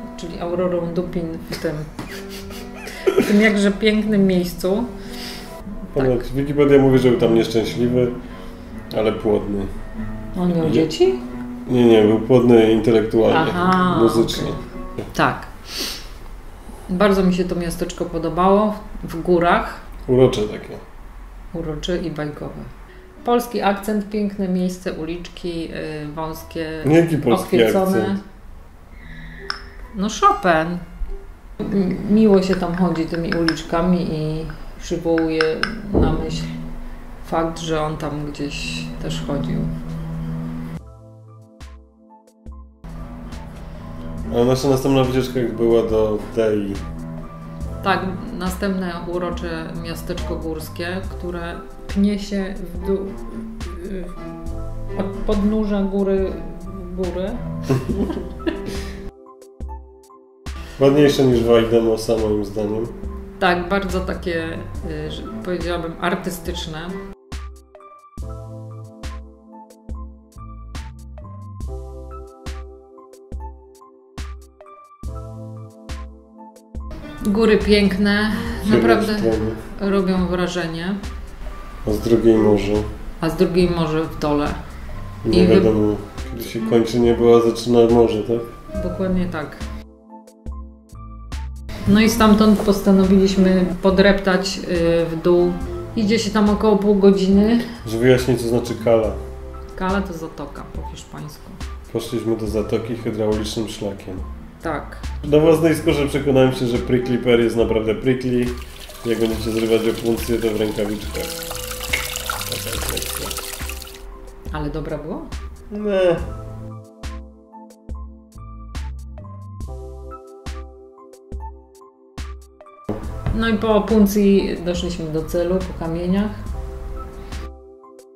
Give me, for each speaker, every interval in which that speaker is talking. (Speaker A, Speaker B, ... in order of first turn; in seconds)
Speaker A: 0.1-2.0, 3.0-4.9, 5.9-6.2, 10.3-11.2, 13.3-14.6, 15.1-15.9, 16.9-19.8, 21.5-22.7, 23.2-28.2, 29.9-30.8, 31.6-36.5, 37.2-39.7, 47.8-54.1, 54.9-58.2, 63.4-67.0, 77.2-81.0, 83.2-84.6, 85.3-85.7, 88.7-89.6, 91.8-97.7, 99.7-101.6, 104.6-105.1, 114.5-115.3, 123.3-126.4
Speaker B: 5.9-8.2, 8.9-9.7, 10.5-10.9, 11.7-14.6, 20.1-20.8, 26.8-28.1, 44.3-46.8, 60.8-62.9, 78.6-79.6, 81.8-82.8, 85.2-88.5, 97.8-99.2, 101.9-104.2, 105.2-111.3, 112.5-113.3, 115.7-116.2